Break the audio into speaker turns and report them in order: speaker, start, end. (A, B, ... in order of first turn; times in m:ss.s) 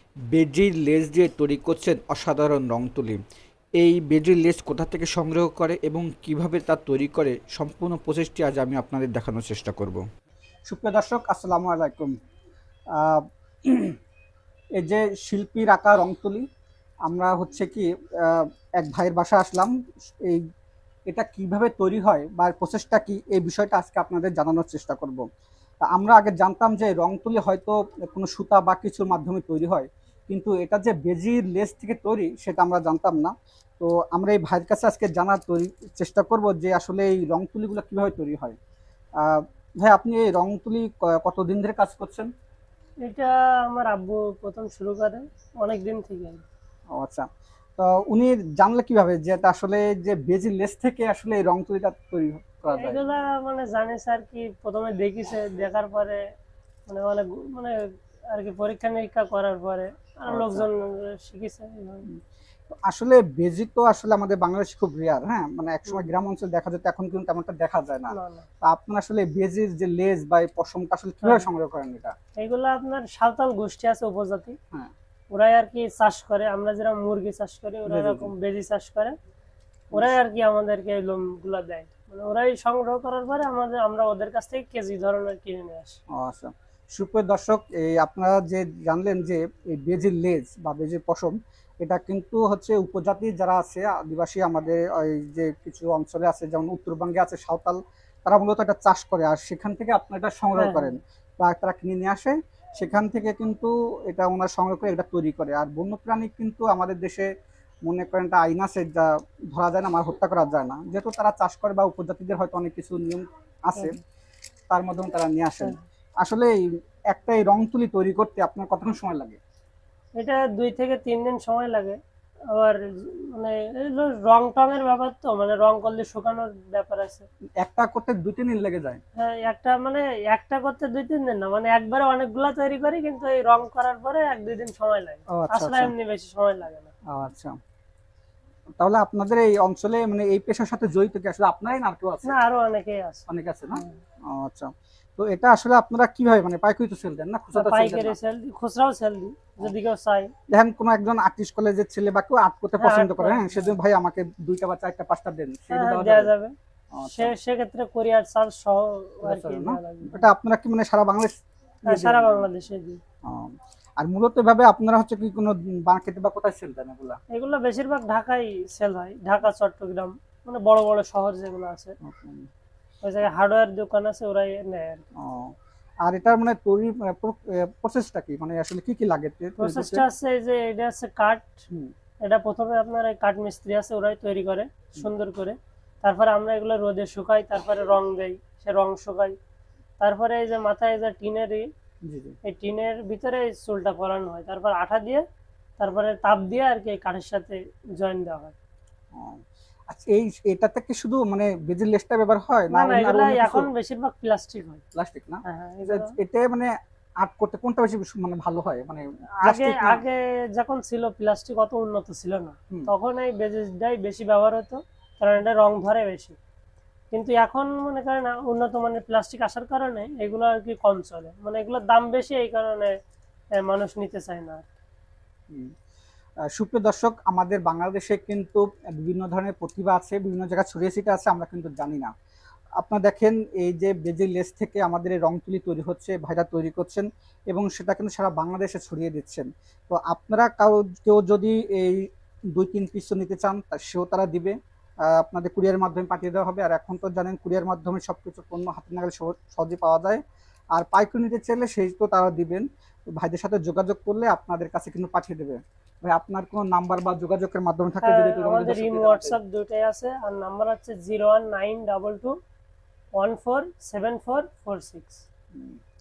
0:00.3-0:03.2 A
0:03.8-0:10.0 A
0:10.7-0:12.2 A
0:13.0-0:14.0 A
0:14.8-0:16.5 A
0:17.1-0:19.7 A
0:21.1-0:25.2 A
0:25.8-0:38.6 A
0:39.2-0:42.3 A
0:43.0-0:46.4 B
0:47.0-0:47.3 A
0:47.8-0:53.0 A
0:52.7-0:56.2 B
0:56.9-1:02.1 B
1:00.3-1:00.7 A
1:02.8-1:12.1 A
1:08.1-1:08.4 B
1:12.4-1:14.6 B
1:15.3-1:19.2 B
1:17.9-1:18.3 A
1:19.9-1:26.0 B
1:26.1-1:47.3 A
1:40.6-1:41.0 B
1:47.9-1:54.0 A
1:54.7-1:56.5 A
1:57.1-1:59.4 A
2:00.2-2:02.0 B
2:02.5-2:07.3 B
2:07.6-2:09.0 A
2:09.2-2:16.9 B
2:15.3-2:15.9 A
2:17.1-2:17.5 A
2:18.8-2:22.4 A
2:22.2-2:24.0 B
2:23.3-2:28.2 A
2:27.5-2:30.3 B
2:30.5-2:36.3 A
2:32.8-2:33.8 B
2:35.7-2:36.5 B
2:36.9-2:37.4 A
2:37.1-2:40.2 B
2:39.2-2:41.3 A
2:41.8-2:42.5 A
2:41.9-2:43.0 B
2:43.2-2:47.2 A
2:47.3-2:52.0 B
2:52.0-2:52.5 A
2:53.0-2:55.1 B
2:55.2-2:55.5 A
2:56.1-3:00.0 A
2:59.6-3:01.6 B
3:02.2-3:09.4 B
3:10.0-3:11.7 B
3:12.1-3:12.4 A
3:12.4-3:15.2 B
3:15.8-3:18.5 B
3:19.1-3:23.7 A
3:22.7-3:24.8 B
3:25.0-3:30.0 A
3:25.5-3:26.1 B
3:29.4-3:36.4 B
3:37.1-3:42.9 B
3:43.6-3:44.6 B
3:46.5-3:52.1 A
3:52.8-4:04.6 A
4:05.1-4:10.2 A
4:10.8-4:19.4 A
4:18.0-4:22.4 B
4:23.2-4:25.2 B
4:25.5-4:25.8 A